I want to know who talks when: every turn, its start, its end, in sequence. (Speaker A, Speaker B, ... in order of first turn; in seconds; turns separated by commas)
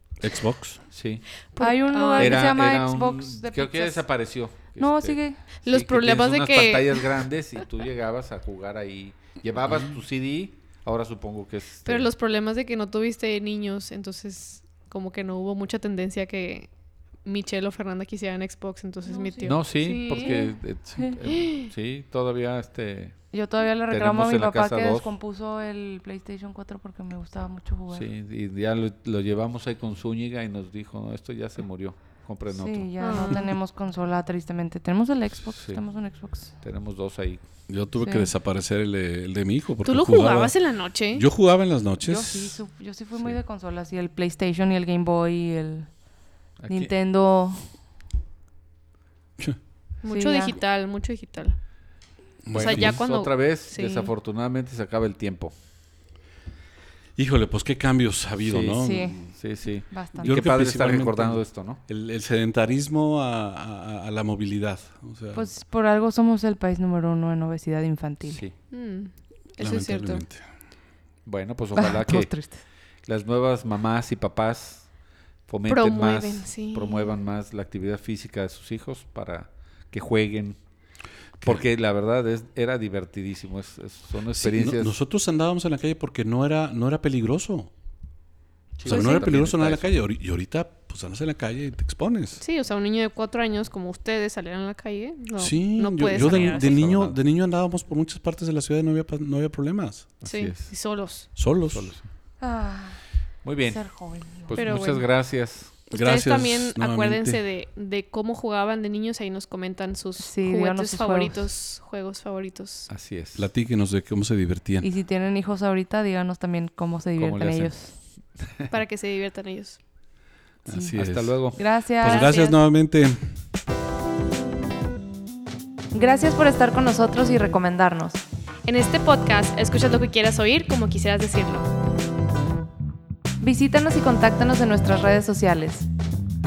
Speaker A: 0.2-0.8, Speaker B: 0.9-1.2, Speaker C: 1.5-2.5, Speaker D: 1.6-4.0, Speaker B: 2.1-12.1, Speaker D: 4.8-5.4, Speaker C: 5.6-7.2, Speaker C: 11.8-16.7, Speaker C: 17.2-20.5, Speaker D: 19.0-19.6, Speaker B: 19.4-23.3, Speaker D: 20.1-21.2, Speaker C: 21.2-21.6, Speaker D: 23.3-28.1, Speaker B: 23.9-25.1, Speaker B: 27.9-33.3, Speaker D: 32.5-36.5, Speaker C: 33.0-33.5, Speaker B: 35.5-35.8, Speaker B: 36.6-37.4, Speaker A: 37.7-40.5, Speaker D: 38.0-38.3, Speaker C: 39.8-41.2, Speaker A: 41.1-42.6, Speaker D: 42.0-46.0, Speaker B: 46.6-46.9, Speaker D: 46.7-47.7, Speaker C: 50.0-51.5, Speaker D: 50.0-50.6, Speaker A: 52.4-53.0, Speaker B: 52.5-55.5, Speaker C: 52.5-54.1, Speaker A: 57.1-59.3, Speaker B: 58.4-61.8, Speaker D: 58.8-59.2, Speaker D: 59.9-60.4, Speaker A: 60.2-65.5, Speaker D: 65.3-68.4, Speaker B: 68.2-68.5, Speaker C: 68.7-70.2, Speaker A: 69.6-70.4, Speaker B: 71.2-72.3, Speaker D: 71.7-72.6, Speaker B: 73.0-74.9, Speaker B: 75.5-80.6, Speaker C: 75.7-77.2, Speaker B: 81.4-84.9, Speaker A: 84.3-87.7, Speaker B: 88.8-90.0, Speaker A: 88.8-92.4, Speaker C: 88.9-89.3, Speaker C: 92.4-96.8, Speaker A: 95.4-100.1, Speaker B: 96.1-97.2, Speaker B: 100.2-100.7, Speaker C: 100.2-101.3, Speaker A: 101.3-101.9, Speaker B: 101.7-102.1, Speaker D: 102.4-103.0, Speaker B: 103.4-105.8, Speaker D: 103.7-104.8, Speaker C: 104.5-105.1, Speaker C: 105.9-112.9, Speaker A: 105.9-107.4, Speaker D: 110.2-111.4, Speaker B: 112.9-113.5, Speaker A: 113.3-114.9, Speaker D: 114.8-117.9, Speaker B: 117.2-118.7, Speaker C: 118.7-119.8, Speaker A: 120.6-121.4, Speaker D: 120.7-122.3, Speaker B: 120.9-121.6, Speaker A: 122.0-123.3, Speaker C: 122.0-122.6, Speaker D: 125.9-128.2, Speaker C: 128.7-131.7, Speaker D: 133.4-135.9